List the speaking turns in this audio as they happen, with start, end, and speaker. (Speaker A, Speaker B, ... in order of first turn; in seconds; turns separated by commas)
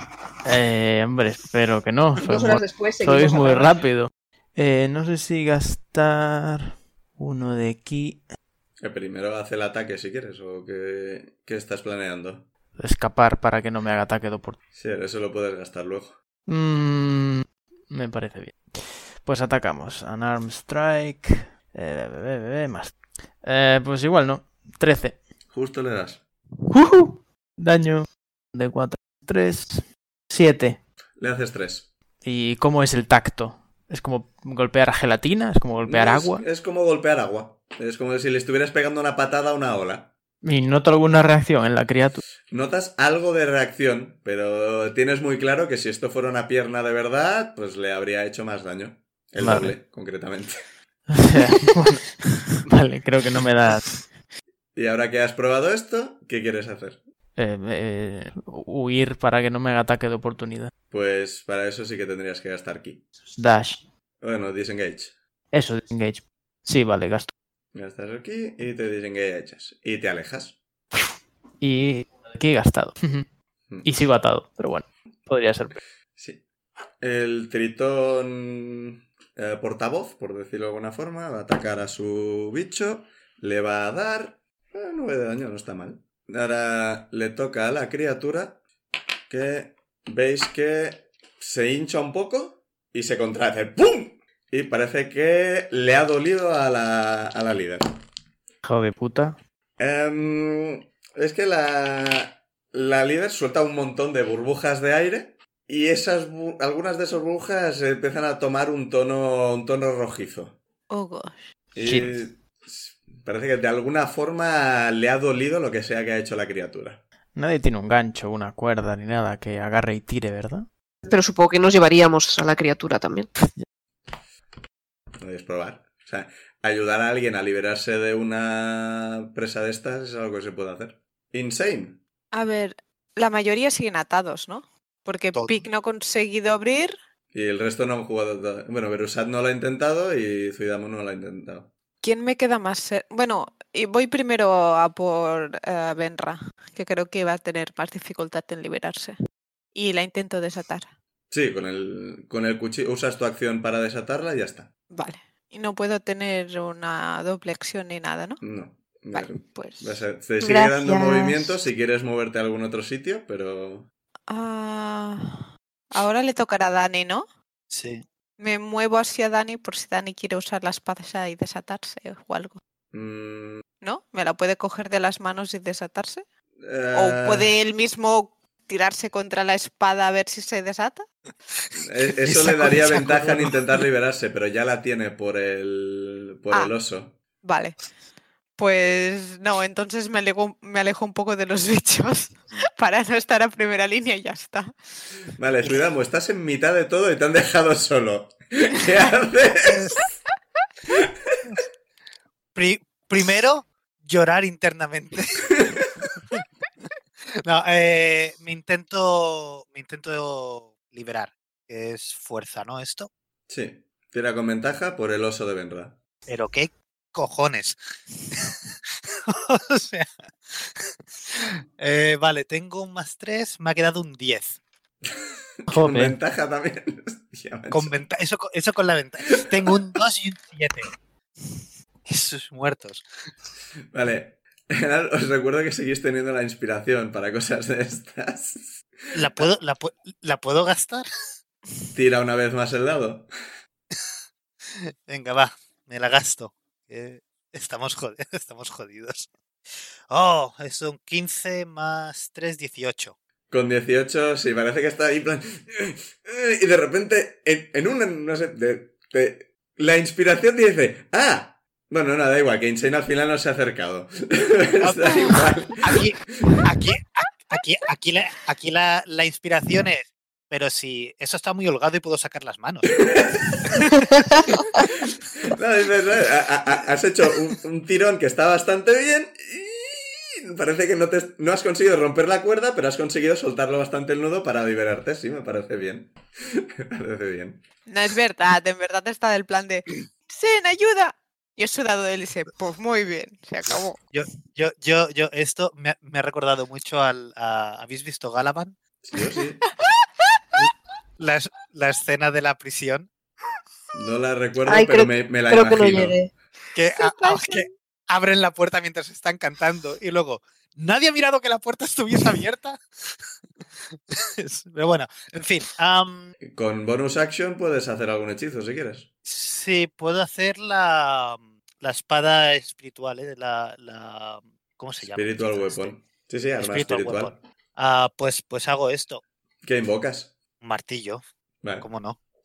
Speaker A: 0.5-8.2, Speaker B: 2.2-3.8, Speaker C: 8.8-12.5, Speaker A: 12.8-14.6, Speaker C: 14.8-16.2, Speaker A: 16.5-25.2, Speaker C: 25.5-26.2, Speaker A: 26.7-30.8, Speaker C: 31.2-31.9, Speaker A: 32.2-36.4, Speaker C: 35.9-40.1, Speaker A: 40.4-42.2, Speaker C: 42.5-50.6, Speaker A: 49.4-49.7, Speaker A: 51.1-52.1, Speaker A: 52.7-53.9, Speaker C: 54.8-57.0, Speaker A: 57.4-60.7, Speaker C: 60.9-63.0, Speaker A: 63.4-63.8, Speaker C: 64.2-65.1, Speaker A: 65.5-67.3, Speaker C: 67.7-70.6, Speaker A: 71.6-73.3, Speaker A: 73.8-75.8, Speaker C: 76.2-76.4, Speaker C: 77.0-88.6, Speaker C: 89.3-97.9, Speaker A: 98.6-99.4, Speaker C: 99.8-110.6, Speaker D: 110.9-111.4, Speaker C: 111.8-117.0, Speaker A: 111.8-112.2, Speaker A: 117.3-120.7, Speaker B: 121.1-123.3, Speaker C: 125.2-132.0, Speaker D: 132.3-136.9, Speaker E: 135.3-135.7, Speaker C: 137.3-141.7, Speaker D: 142.0-149.2, Speaker D: 149.8-150.9, Speaker C: 151.3-154.7, Speaker D: 154.9-158.4, Speaker C: 158.4-163.9, Speaker D: 159.1-160.0, Speaker B: 160.4-161.6, Speaker D: 164.3-167.3, Speaker E: 167.7-168.0, Speaker D: 168.4-172.6, Speaker C: 172.9-173.6, Speaker D: 173.8-176.2, Speaker C: 176.6-177.5, Speaker D: 176.9-181.1, Speaker C: 181.8-187.2, Speaker E: 182.2-183.6, Speaker D: 187.4-187.8, Speaker D: 188.6-194.7, Speaker C: 195.4-199.9, Speaker E: 199.6-200.0, Speaker C: 200.9-201.6, Speaker E: 202.6-206.4, Speaker C: 205.6-205.9, Speaker E: 207.4-213.1, Speaker C: 213.5-216.0, Speaker E: 216.3-217.8, Speaker E: 218.3-218.6, Speaker E: 219.1-224.6, Speaker C: 225.2-227.9, Speaker A: 225.7-226.2, Speaker E: 227.7-230.9, Speaker C: 229.4-229.7, Speaker E: 232.1-233.1, Speaker C: 233.9-239.5, Speaker E: 239.1-241.1, Speaker C: 241.9-243.3, Speaker E: 244.7-249.3, Speaker E: 250.1-253.2, Speaker C: 253.5-266.6, Speaker E: 264.8-272.9, Speaker C: 273.0-273.8, Speaker E: 273.5-274.7, Speaker C: 275.4-287.6, Speaker D: 287.9-294.0, Speaker E: 293.7-298.8, Speaker C: 299.0-299.6, Speaker E: 300.6-303.1, Speaker C: 303.9-306.2, Speaker B: 304.7-306.3, Speaker E: 306.7-312.8, Speaker D: 306.9-307.7, Speaker E: 314.1-316.3, Speaker C: 316.5-319.1, Speaker E: 319.2-325.9, Speaker C: 325.0-327.4, Speaker E: 326.6-329.2, Speaker C: 329.6-330.4, Speaker E: 330.6-331.2, Speaker E: 331.8-332.2